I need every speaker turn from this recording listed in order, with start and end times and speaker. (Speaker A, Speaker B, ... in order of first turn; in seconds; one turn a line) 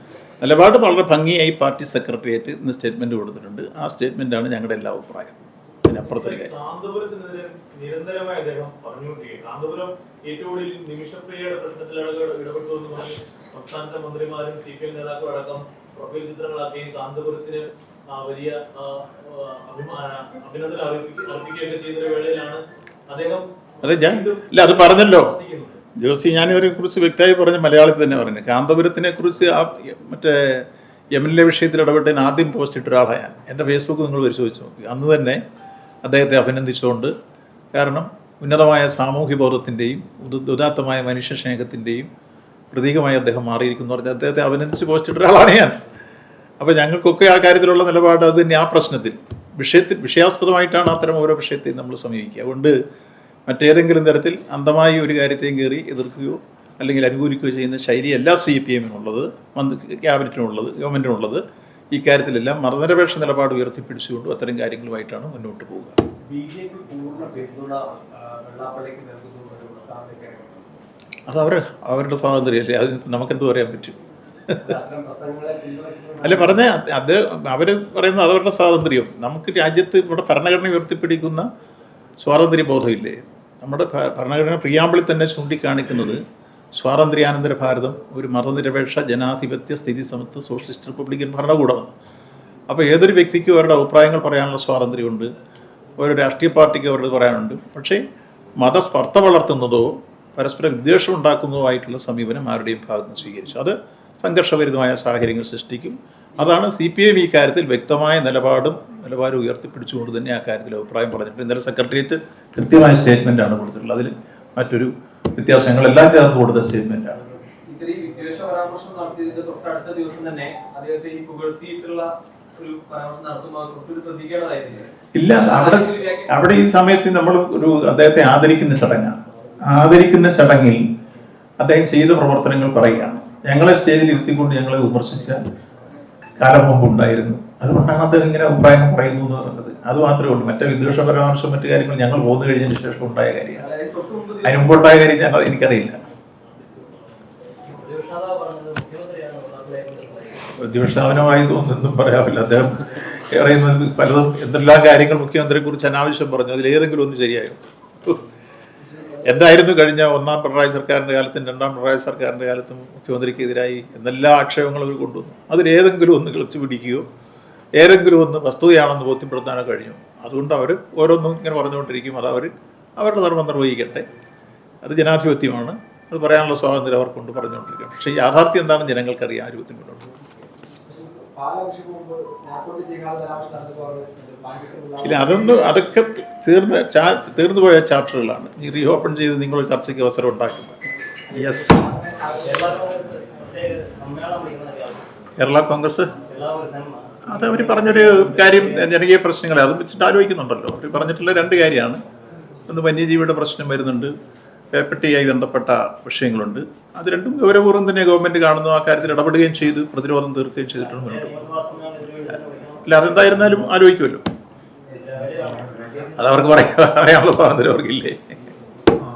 Speaker A: 0.4-6.5
Speaker B: 5.9-25.8
Speaker A: 23.8-25.3
Speaker A: 26.0-35.4
Speaker A: 36.0-37.1
Speaker A: 37.7-42.1
Speaker A: 42.7-45.8
Speaker A: 46.6-52.7
Speaker A: 53.5-66.0
Speaker C: 66.3-70.5
Speaker A: 71.3-74.0
Speaker A: 74.5-74.7
Speaker C: 74.6-76.6
Speaker A: 76.2-81.5
Speaker A: 82.2-86.2
Speaker A: 86.7-91.9
Speaker A: 92.7-95.3
Speaker A: 96.0-98.0
Speaker A: 98.6-117.2
Speaker C: 117.7-118.4
Speaker C: 119.5-120.2
Speaker C: 123.7-124.8
Speaker A: 125.1-130.8
Speaker C: 125.5-126.0
Speaker A: 131.6-135.4
Speaker A: 136.4-143.7
Speaker C: 143.7-144.4
Speaker A: 144.4-146.0
Speaker C: 147.6-150.4
Speaker A: 150.6-158.2
Speaker D: 158.8-159.4
Speaker A: 159.2-167.1
Speaker A: 167.8-174.1
Speaker A: 174.8-180.1
Speaker D: 180.9-185.8
Speaker A: 185.0-191.9
Speaker D: 191.3-192.9
Speaker C: 192.4-195.0
Speaker A: 195.4-196.1
Speaker C: 196.3-198.9
Speaker A: 197.3-202.0
Speaker A: 202.7-204.1
Speaker A: 204.7-211.4
Speaker C: 210.8-213.5
Speaker A: 212.8-214.2
Speaker C: 214.9-216.6
Speaker A: 216.2-218.4